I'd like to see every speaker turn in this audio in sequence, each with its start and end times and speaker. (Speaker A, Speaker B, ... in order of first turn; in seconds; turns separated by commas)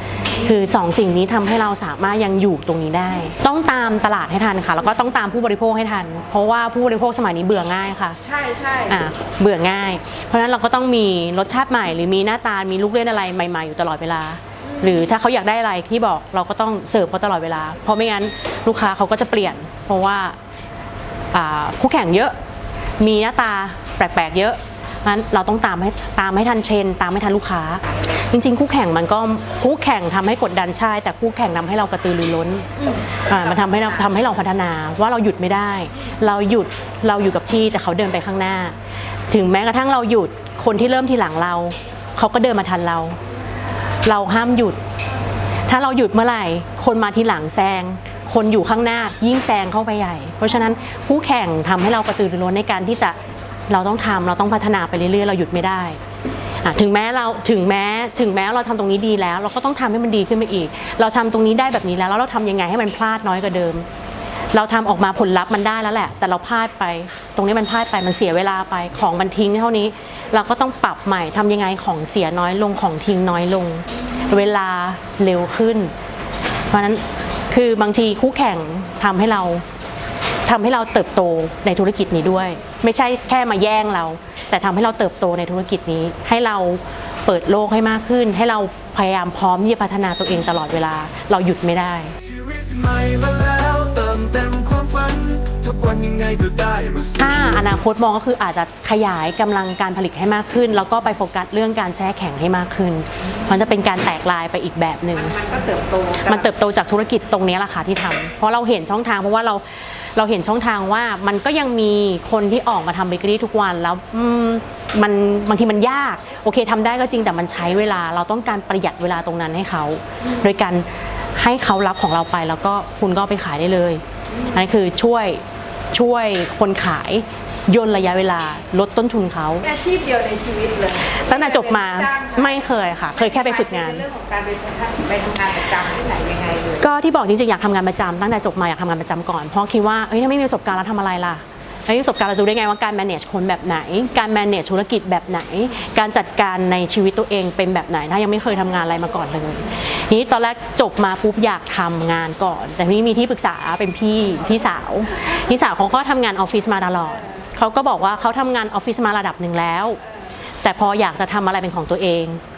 Speaker A: 0.4-8.2, Speaker B: 8.2-9.0, Speaker A: 8.9-20.4, Speaker B: 14.7-15.0, Speaker A: 21.3-22.3, Speaker A: 23.0-38.8, Speaker B: 32.9-34.1, Speaker A: 39.3-43.2, Speaker A: 44.0-44.8, Speaker A: 45.7-53.1, Speaker A: 53.7-56.0, Speaker A: 56.6-63.9, Speaker A: 64.5-75.9, Speaker A: 76.7-79.6, Speaker A: 80.5-92.2, Speaker C: 92.2-97.2, Speaker A: 97.2-105.4, Speaker B: 105.2-106.5, Speaker A: 106.2-129.7, Speaker B: 129.6-136.9, Speaker A: 131.1-134.0, Speaker A: 136.8-160.0, Speaker A: 160.6-162.4